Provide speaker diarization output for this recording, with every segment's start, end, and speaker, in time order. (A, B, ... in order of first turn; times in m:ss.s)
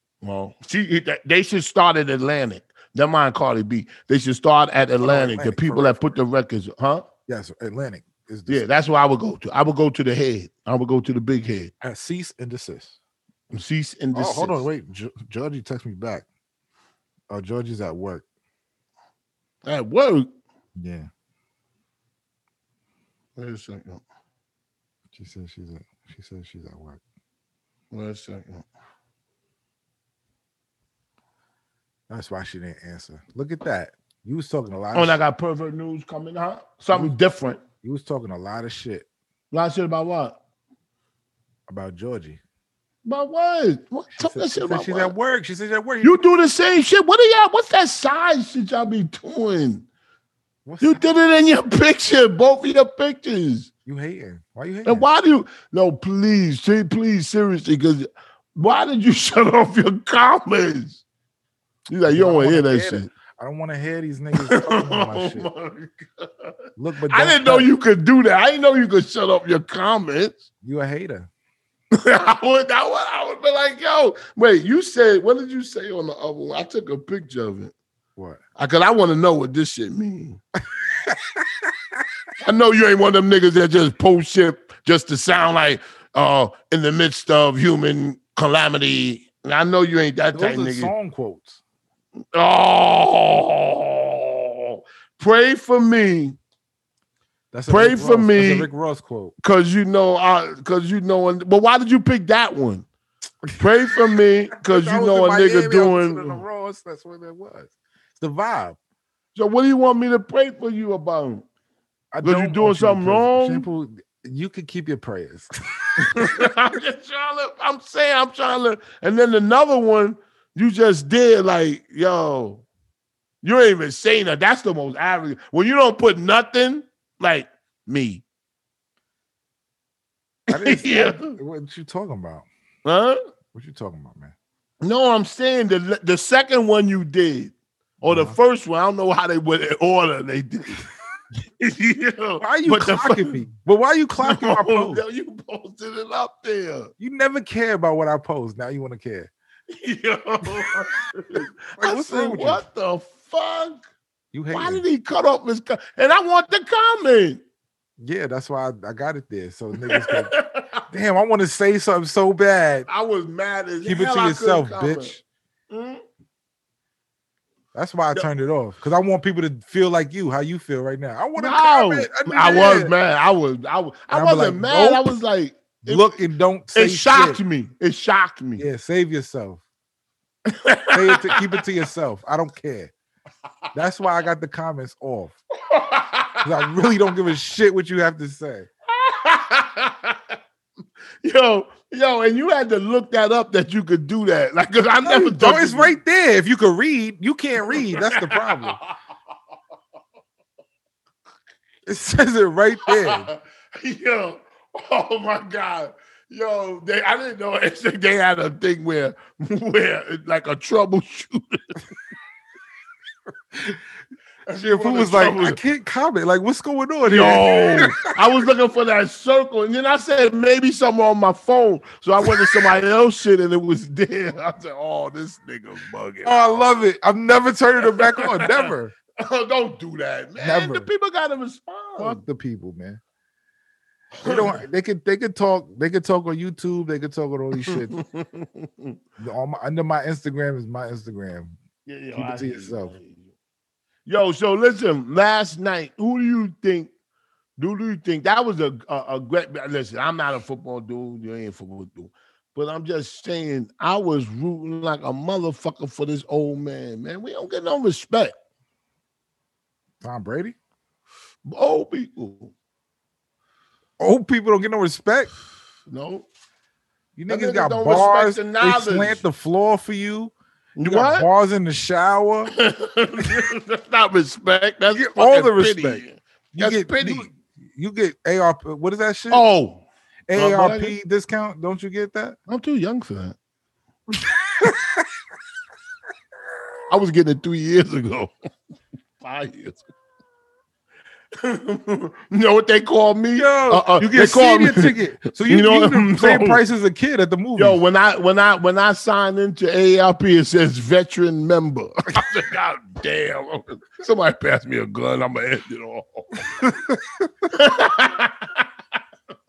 0:00.2-0:07.0 A
0:05.0-0:06.2 B
0:07.3-0:08.6 B
0:08.5-0:11.7 A
0:11.8-0:13.0 B
0:13.5-0:14.6 A
0:14.1-0:16.2 B
0:17.3-0:18.2 B
0:19.6-0:20.3 A
0:20.8-0:21.1 B
0:23.4-0:24.0 A
0:25.1-0:27.0 B
0:27.9-0:28.6 A
0:32.1-0:35.2 B
0:34.9-0:37.6 A
0:37.8-0:39.0 B
0:39.5-0:40.4 A
0:41.7-0:42.4 B
0:43.0-0:45.1 A
0:44.2-0:46.2 B
0:46.0-0:49.8 A
0:50.6-0:51.0 B
0:50.8-0:53.7 A
0:53.8-0:55.0 B
0:54.8-1:01.0 A
1:01.9-1:03.1 A
1:02.1-1:05.5 B
1:04.4-1:06.5 A
1:06.8-1:07.7 B
1:07.1-1:10.4 A
1:10.6-1:11.3 B
1:11.9-1:17.7 A
1:18.6-1:20.4 A
1:20.9-1:21.7 B
1:22.4-1:30.9 A
1:30.3-1:31.6 B
1:32.3-1:36.4 A
1:37.5-1:39.3 B
1:37.7-1:38.7 A
1:39.4-1:42.8 A
1:43.6-1:46.4 A
1:44.6-1:48.8 B
1:49.3-1:51.4 A
1:52.1-1:56.4 B
1:52.2-1:53.6 A
1:56.0-2:02.6 A
2:03.4-2:08.2 A
2:10.5-2:11.4 A
2:10.5-2:12.4 B
2:12.8-2:13.2 A
2:13.5-2:14.3 B
2:14.8-2:20.8 A
2:18.0-2:18.4 B
2:21.6-2:23.4 A
2:22.4-2:25.0 B
2:24.2-2:26.9 A
2:27.0-2:29.3 B
2:29.7-2:33.8 A
2:31.3-2:32.6 B
2:34.3-2:34.8 B
2:34.5-2:37.4 A
2:38.0-2:40.3 B
2:39.8-2:40.8 A
2:40.9-2:42.9 B
2:42.9-2:45.1 A
2:43.8-2:45.2 B
2:45.7-2:46.0 A
2:47.7-2:52.9 B
2:51.4-2:56.2 A
2:54.1-2:55.1 B
2:55.8-2:57.4 B
2:56.7-2:58.6 A
2:58.6-2:59.6 B
3:00.5-3:01.6 A
3:00.9-3:02.9 B
3:03.7-3:05.4 B
3:05.7-3:06.5 A
3:06.4-3:08.7 B
3:08.9-3:10.4 A
3:11.2-3:15.9 A
3:15.0-3:18.8 B
3:17.7-3:18.9 A
3:21.8-3:23.3 B
3:22.9-3:31.7 A
3:34.5-3:35.6 A
3:34.5-3:38.1 B
3:37.0-3:46.6 A
3:42.2-3:42.6 B
3:46.2-3:48.9 B
3:47.9-3:52.2 A
3:50.4-3:50.9 B
3:52.0-3:53.0 B
3:54.2-3:54.6 A
3:54.2-3:58.0 B
3:57.7-3:59.0 A
3:59.2-4:01.5 B
4:01.8-4:03.3 A
4:02.1-4:02.9 B
4:04.0-4:06.9 A
4:07.6-4:18.3 A
4:20.0-4:20.5 B
4:21.4-4:22.5 A
4:24.0-4:25.3 B
4:25.9-4:26.3 A
4:27.2-4:30.3 B
4:27.3-4:29.2 A
4:30.8-4:31.3 A
4:30.8-4:32.5 B
4:32.5-4:37.3 A
4:34.9-4:39.4 B
4:39.3-4:41.0 A
4:40.3-4:42.4 B
4:42.5-4:43.4 A
4:44.2-4:45.1 B
4:46.9-4:48.3 A
4:49.2-4:49.8 A
4:51.4-4:55.0 A
4:53.4-4:57.8 B
4:55.5-4:56.6 A
4:57.6-5:06.4 A
5:06.6-5:07.3 B
5:07.5-5:08.6 A